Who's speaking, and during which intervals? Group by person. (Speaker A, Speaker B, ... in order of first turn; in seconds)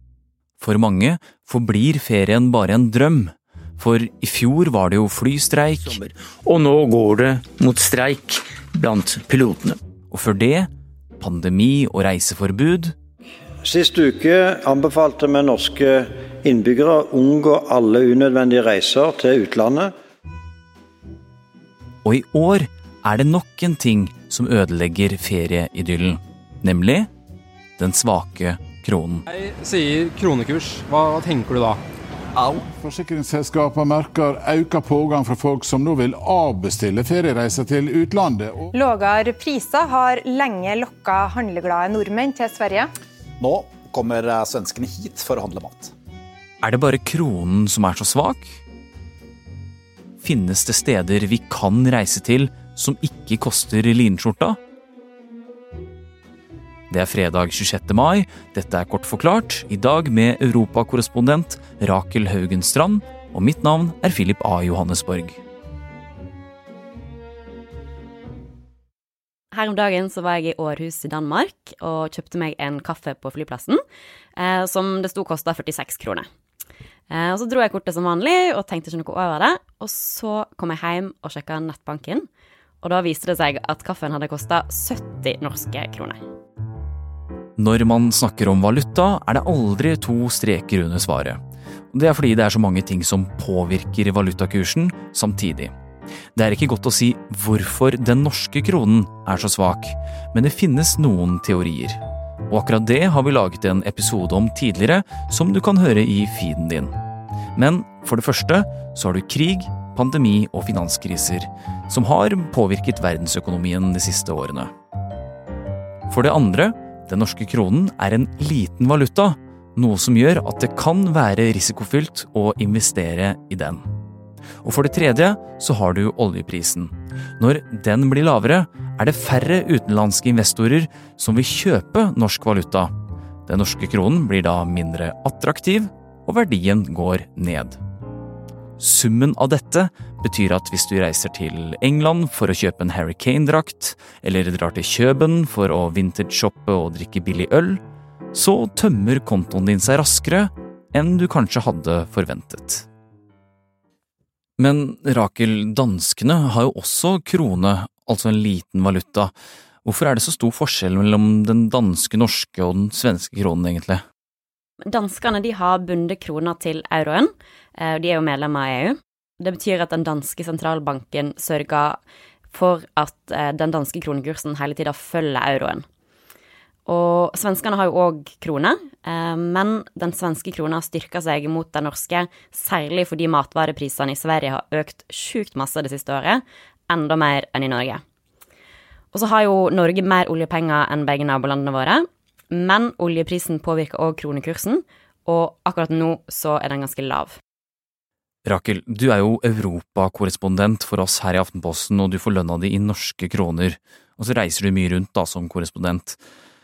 Speaker A: 0.6-5.9, 10.1-12.9, 22.0-27.1, 27.8-29.2, 46.6-48.6, 50.2-54.6, 56.9-65.4, 87.6-91.4, 91.9-95.7, 96.3-106.9, 107.5-114.7, 116.1-123.8, 124.6-132.9, 133.5-137.8, 138.8-147.8, 148.3-152.9, 154.6-159.3, 159.8-164.0, 198.4-206.2
Speaker B: 5.8-9.8
Speaker C: 13.6-19.9
Speaker D: 29.3-31.8
Speaker E: 32.4-38.7
Speaker F: 38.8-42.9
Speaker G: 43.4-45.9
Speaker H: 69.5-73.8, 74.4-76.2, 77.1-82.2, 82.8-86.2, 164.9-172.0, 172.5-175.8, 176.9-188.0, 189.1-197.4